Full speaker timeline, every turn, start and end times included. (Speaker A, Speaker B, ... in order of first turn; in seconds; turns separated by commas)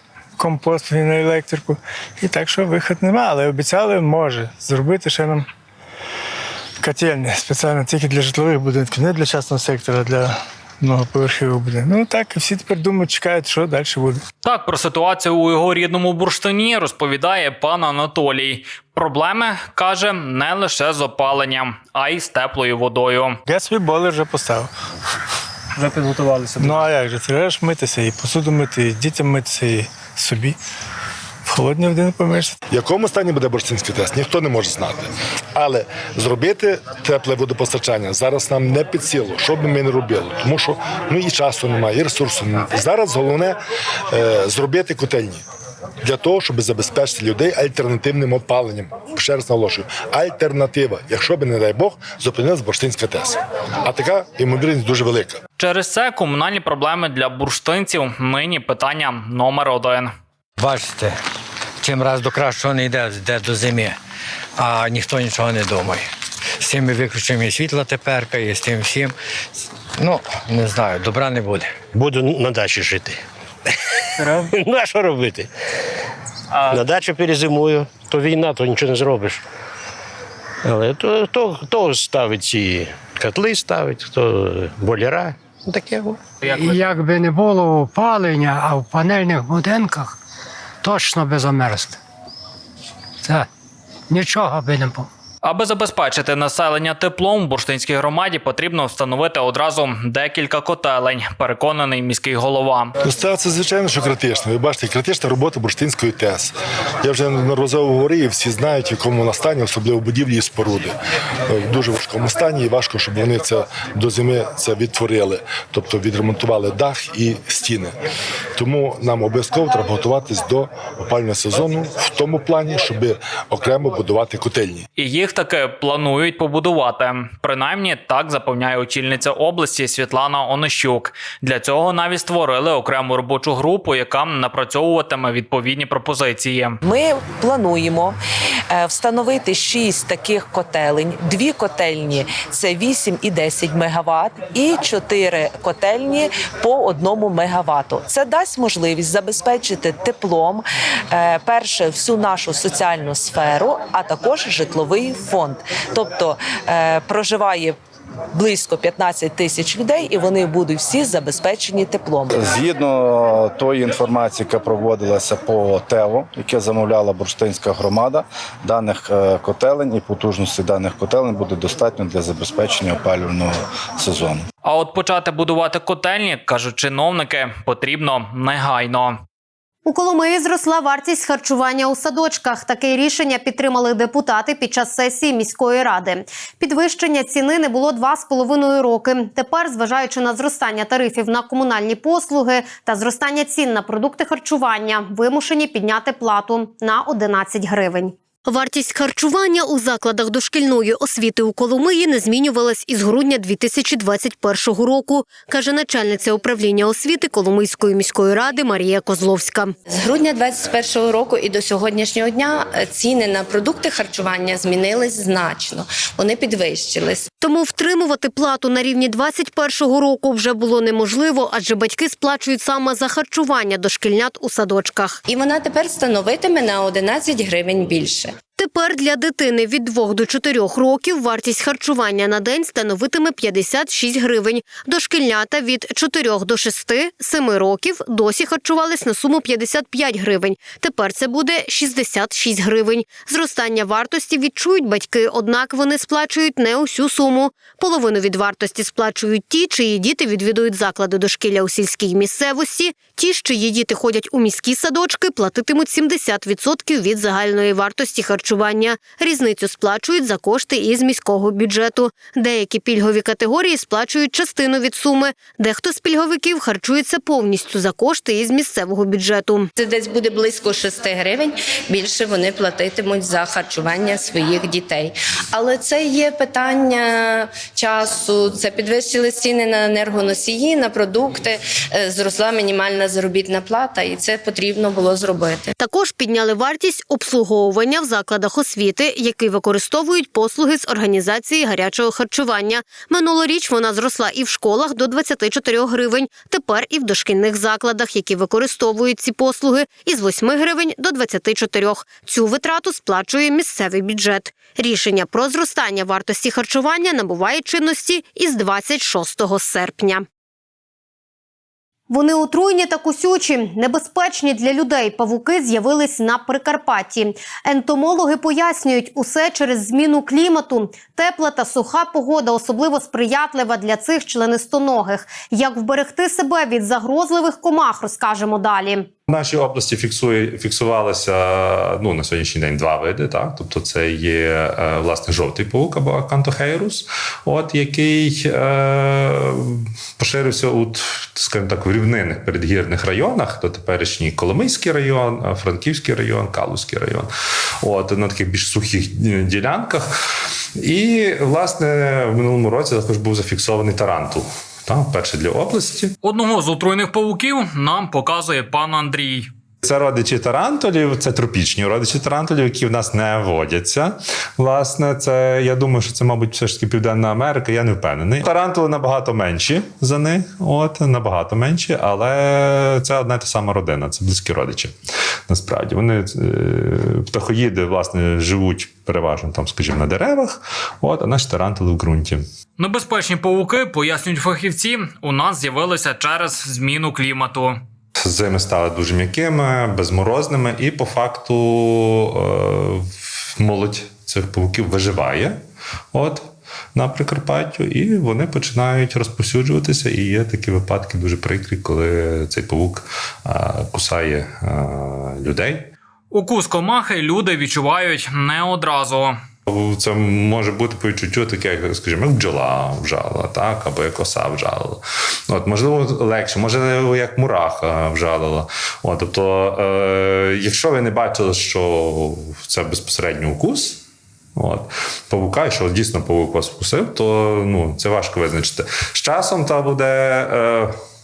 Speaker A: 0.4-5.5, Speaker A: 6.8-14.2, Speaker B: 14.4-23.4, Speaker A: 23.5-24.7, Speaker A: 26.6-30.6, Speaker A: 31.4-32.5, Speaker C: 32.7-43.5, Speaker C: 44.1-45.4, Speaker C: 46.0-55.4, Speaker B: 55.6-60.1, Speaker D: 60.6-61.1, Speaker D: 61.8-64.0, Speaker D: 64.6-66.0, Speaker D: 66.6-69.1, Speaker D: 70.0-71.7, Speaker E: 71.9-73.2, Speaker E: 74.5-75.5, Speaker E: 76.7-79.4, Speaker E: 80.7-86.2, Speaker F: 86.6-90.1, Speaker F: 90.8-91.9, Speaker F: 94.1-95.0, Speaker B: 95.4-102.9, Speaker C: 103.0-110.9, Speaker C: 111.5-117.9, Speaker C: 118.6-124.8, Speaker B: 125.0-136.8, Speaker G: 136.8-138.1, Speaker G: 138.7-150.6, Speaker G: 151.2-157.7, Speaker G: 158.4-162.3, Speaker H: 162.3-174.4, Speaker B: 174.6-179.2, Speaker I: 179.8-209.7, Speaker J: 209.9-217.2, Speaker I: 217.4-225.2, Speaker J: 225.3-228.3, Speaker I: 228.6-269.7, Speaker J: 269.8-285.7, Speaker I: 285.8-310.2, Speaker I: 312.1-329.1, Speaker K: 329.3-347.3, Speaker K: 347.8-350.0, Speaker K: 350.8-356.1, Speaker B: 356.2-359.5, Speaker K: 359.8-374.9, Speaker K: 375.5-382.4, Speaker B: 382.8-387.8, Speaker K: 388.2-393.0, Speaker K: 393.6-395.6, Speaker K: 396.1-405.9, Speaker B: 406.3-409.3, Speaker K: 409.6-424.0, Speaker K: 424.6-430.9